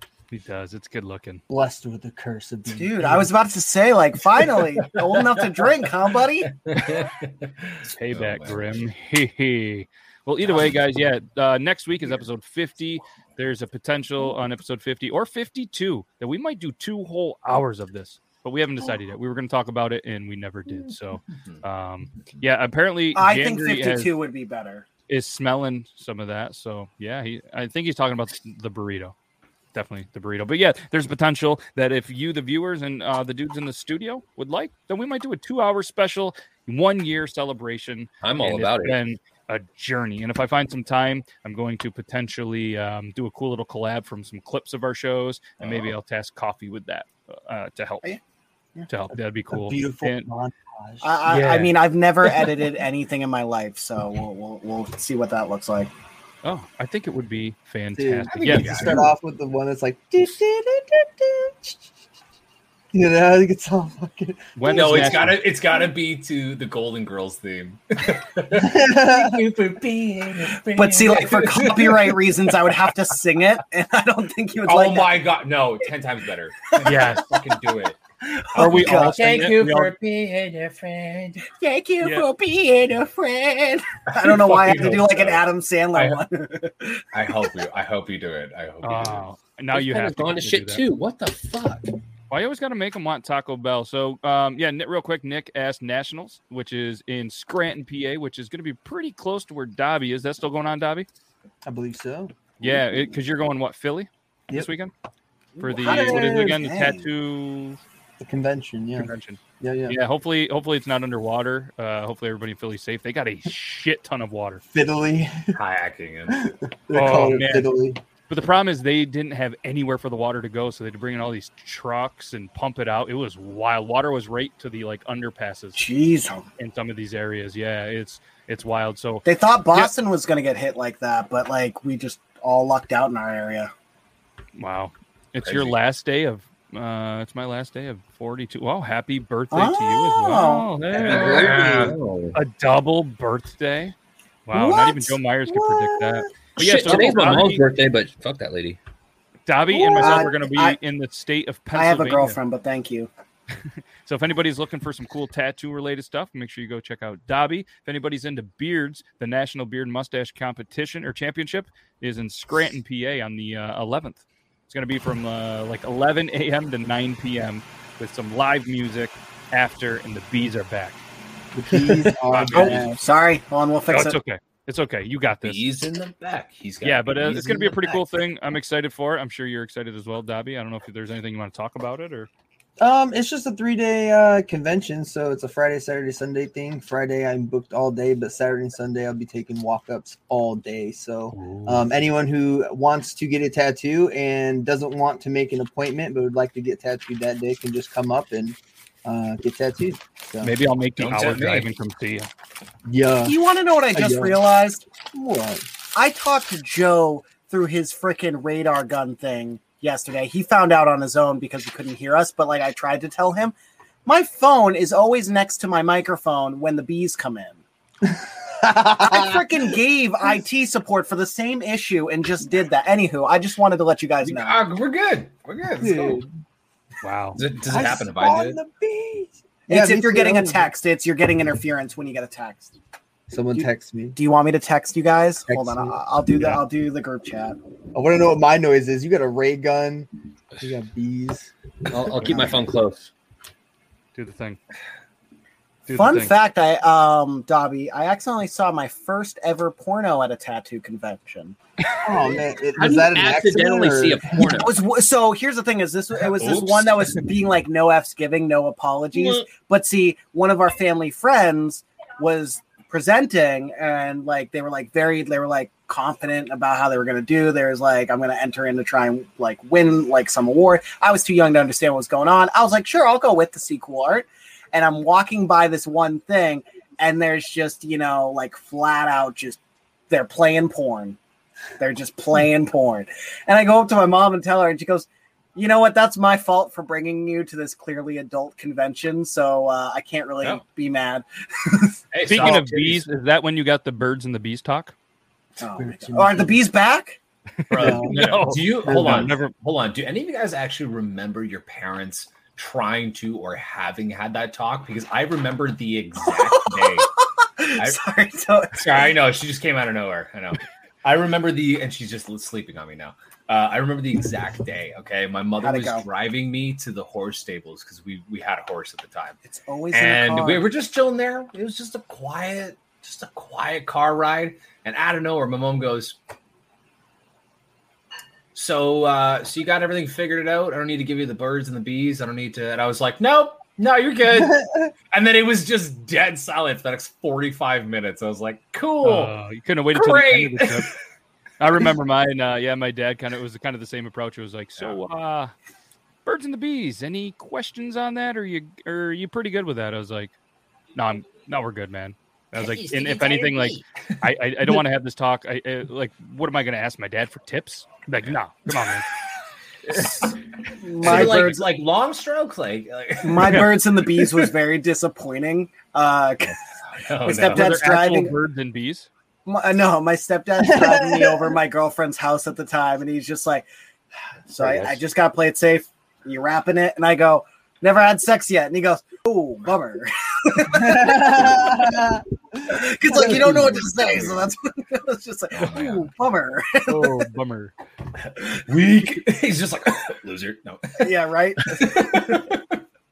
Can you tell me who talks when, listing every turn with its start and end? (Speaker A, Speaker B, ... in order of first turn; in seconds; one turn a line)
Speaker A: 0.3-1.4
Speaker B: 1.5-3.3
Speaker C: 2.7-6.5
Speaker D: 4.9-5.3
Speaker D: 6.5-8.8
Speaker A: 7.9-24.2
Speaker D: 10.4-10.8
Speaker D: 21.4-21.6
Speaker C: 23.1-24.9
Speaker A: 25.1-29.1
Speaker A: 29.7-48.0
Speaker E: 38.2-39.0
Speaker D: 45.6-45.9
Speaker A: 48.9-50.3
Speaker B: 49.5-51.3
Speaker C: 51.0-55.9
Speaker A: 51.3-51.7
Speaker A: 56.4-58.9
Speaker B: 58.0-61.8
Speaker D: 58.3-59.1
Speaker B: 62.9-65.4
Speaker A: 64.6-65.4
Speaker D: 64.7-72.9
Speaker B: 68.5-69.4
Speaker C: 70.7-75.3
Speaker D: 74.6-78.0
Speaker A: 76.8-77.2
Speaker C: 78.2-79.4
Speaker A: 78.6-79.9
Speaker D: 79.2-81.5
Speaker C: 81.5-87.5
Speaker A: 82.0-82.3
Speaker D: 84.1-86.2
Speaker D: 87.1-89.3
Speaker A: 88.8-90.8
Speaker E: 89.7-91.9
Speaker A: 92.3-101.1
Speaker B: 101.7-102.7
Speaker A: 102.6-104.9
Speaker C: 105.6-107.0
Speaker A: 105.6-107.8
Speaker B: 105.8-106.6
Speaker B: 108.2-110.0
Speaker A: 109.0-114.6
Speaker B: 114.7-115.6
Speaker D: 115.5-116.4
Speaker B: 116.3-118.0
Speaker A: 116.9-117.8
Speaker A: 118.3-125.8
Speaker C: 125.8-126.5
Speaker A: 126.6-129.9
Speaker C: 129.2-133.7
Speaker A: 134.6-141.6
Speaker D: 135.4-135.8
Speaker C: 139.5-140.7
Speaker D: 141.0-142.0
Speaker E: 141.0-142.4
Speaker C: 141.2-141.5
Speaker B: 141.5-141.9
Speaker A: 142.3-143.9
Speaker A: 144.5-147.7
Speaker C: 144.5-145.2
Speaker B: 145.5-146.2
Speaker E: 146.6-148.8
Speaker A: 149.5-152.4
Speaker B: 149.7-150.3
Speaker C: 150.0-150.8
Speaker C: 151.7-153.1
Speaker A: 154.1-171.0
Speaker B: 171.5-173.0
Speaker A: 172.3-172.8
Speaker C: 172.5-174.2
Speaker A: 173.9-175.8
Speaker D: 175.4-178.0
Speaker A: 176.8-182.3
Speaker B: 182.8-200.6
Speaker A: 191.3-191.9
Speaker A: 200.4-202.3
Speaker D: 201.0-201.7
Speaker B: 202.9-203.4
Speaker C: 203.2-204.8
Speaker B: 203.9-204.4
Speaker B: 205.1-205.7
Speaker C: 205.9-213.5
Speaker C: 214.1-217.6
Speaker B: 218.6-219.4
Speaker C: 219.0-224.7
Speaker D: 224.2-226.2
Speaker B: 225.8-226.3
Speaker A: 227.0-227.4
Speaker D: 227.3-228.6
Speaker B: 227.7-230.7
Speaker C: 229.7-232.8
Speaker B: 233.3-234.2
Speaker C: 233.6-237.6
Speaker B: 235.5-236.0
Speaker B: 237.9-240.1
Speaker B: 240.6-242.6
Speaker E: 241.9-243.1
Speaker A: 244.2-244.6
Speaker A: 245.9-246.3
Speaker C: 245.9-251.6
Speaker B: 252.0-254.5
Speaker E: 252.8-254.8
Speaker C: 254.6-281.2
Speaker D: 256.4-256.9
Speaker C: 281.8-292.6
Speaker D: 292.1-293.0
Speaker A: 292.2-294.9
Speaker B: 295.6-296.7
Speaker C: 295.6-297.2
Speaker A: 297.7-299.5
Speaker D: 297.7-307.1
Speaker B: 297.8-299.4
Speaker C: 306.3-307.1
Speaker C: 307.6-309.1
Speaker D: 308.7-319.4
Speaker C: 315.6-316.1
Speaker C: 319.4-320.7
Speaker D: 319.9-326.2
Speaker D: 328.5-339.4
Speaker B: 334.4-334.9
Speaker A: 339.0-340.9
Speaker D: 339.9-341.0
Speaker A: 341.6-345.5
Speaker A: 346.2-350.3
Speaker A: 350.9-359.1
Speaker D: 352.6-353.4
Speaker E: 353.0-353.8
Speaker D: 358.3-358.8
Speaker D: 359.9-360.3
Speaker C: 360.8-361.6
Speaker D: 361.0-363.8
Speaker A: 361.1-361.4
Speaker C: 363.2-366.6
Speaker D: 366.5-367.8
Speaker C: 367.2-368.4
Speaker A: 367.4-369.1
Speaker C: 369.5-373.7
Speaker B: 370.6-371.5
Speaker C: 374.5-382.0
Speaker D: 374.6-375.0
Speaker B: 380.7-382.2
Speaker C: 382.7-387.2
Speaker B: 383.1-384.3
Speaker D: 385.5-386.1
Speaker A: 386.9-387.7
Speaker D: 388.2-392.8
Speaker C: 391.0-392.0